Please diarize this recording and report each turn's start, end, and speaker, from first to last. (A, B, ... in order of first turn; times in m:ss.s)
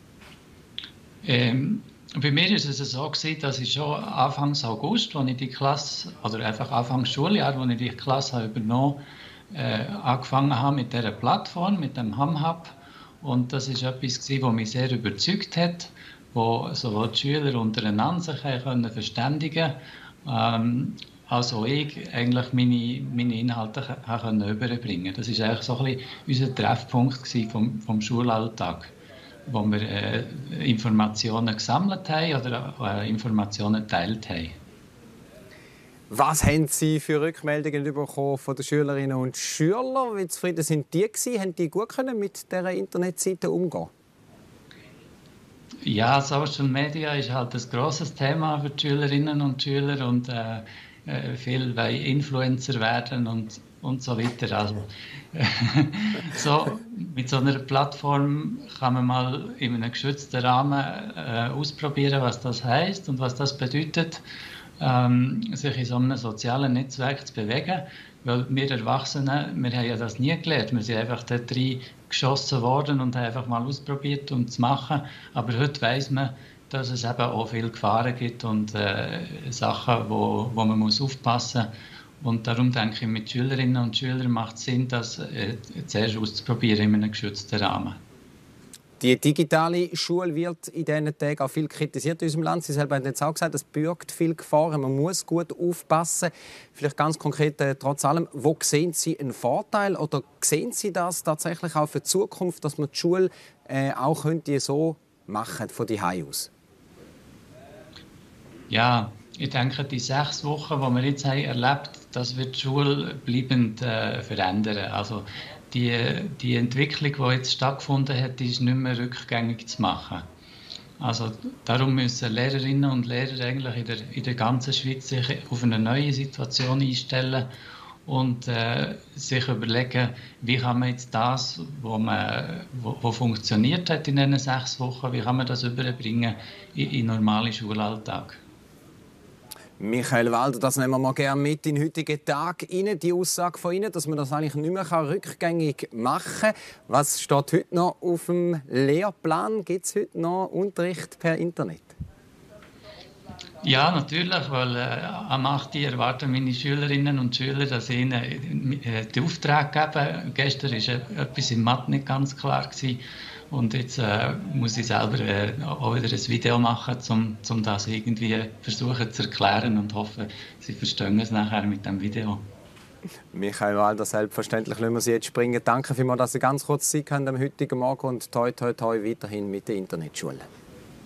0:01.2-0:28.9 A
0:29.5-0:34.6 A
0:36.1-0:43.9 B
0:45.8-1:04.2 A
1:04.8-1:21.7 A
1:22.2-1:28.0 A
1:29.0-1:46.5 B
1:48.7-2:00.2 A
2:01.0-2:07.5 A
2:08.0-2:18.4 A
2:19.8-2:31.9 B
2:33.6-2:52.4 A
2:53.3-3:00.4 B